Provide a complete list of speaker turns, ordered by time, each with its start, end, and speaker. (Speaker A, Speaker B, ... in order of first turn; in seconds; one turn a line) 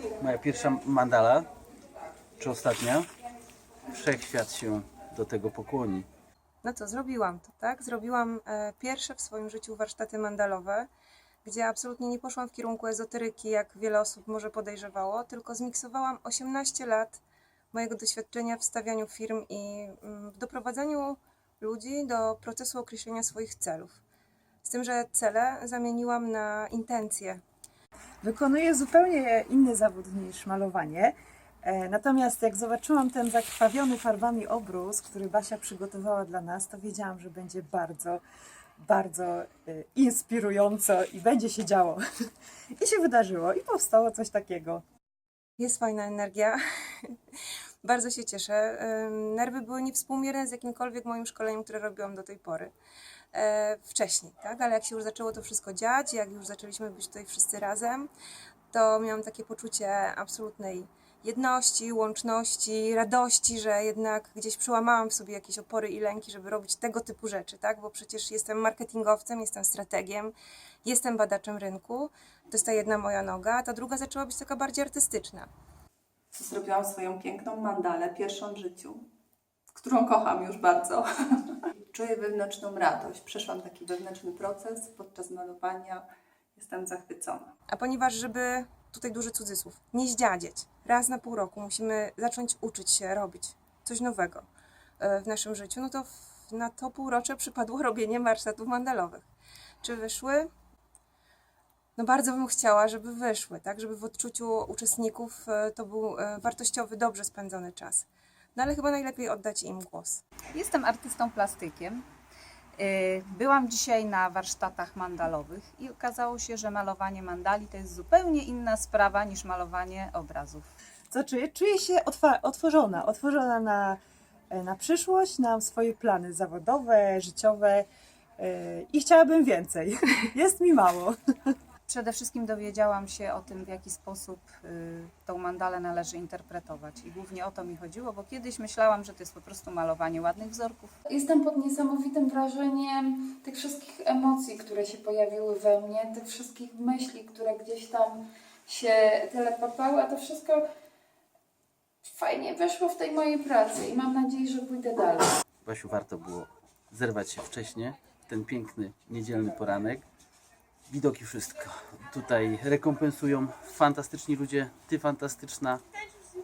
Speaker A: 0.2-1.5
Speaker A: 2.4-3.1
Speaker A: 3.9-6.1
Speaker B: 6.6-10.9
Speaker B: 11.4-17.2
Speaker B: 17.7-24.0
Speaker B: 24.6-27.4
Speaker C: 28.2-38.2
Speaker C: 38.8-42.0
Speaker C: 42.8-44.8
Speaker B: 45.6-47.1
Speaker B: 47.8-52.7
Speaker B: 53.3-58.1
Speaker B: 58.7-75.5
Speaker D: 76.3-79.1
Speaker D: 79.7-86.0
Speaker D: 86.6-87.5
Speaker B: 87.7-94.5
Speaker B: 95.0-99.3
Speaker B: 99.8-100.5
Speaker B: 102.0-110.2
Speaker E: 110.5-112.0
Speaker E: 112.8-120.7
Speaker C: 121.1-124.0
Speaker C: 124.5-127.9
Speaker C: 128.4-131.2
Speaker E: 131.9-140.9
Speaker F: 141.1-150.7
Speaker F: 152.0-155.3
Speaker A: 155.6-160.1
Speaker A: 160.9-165.8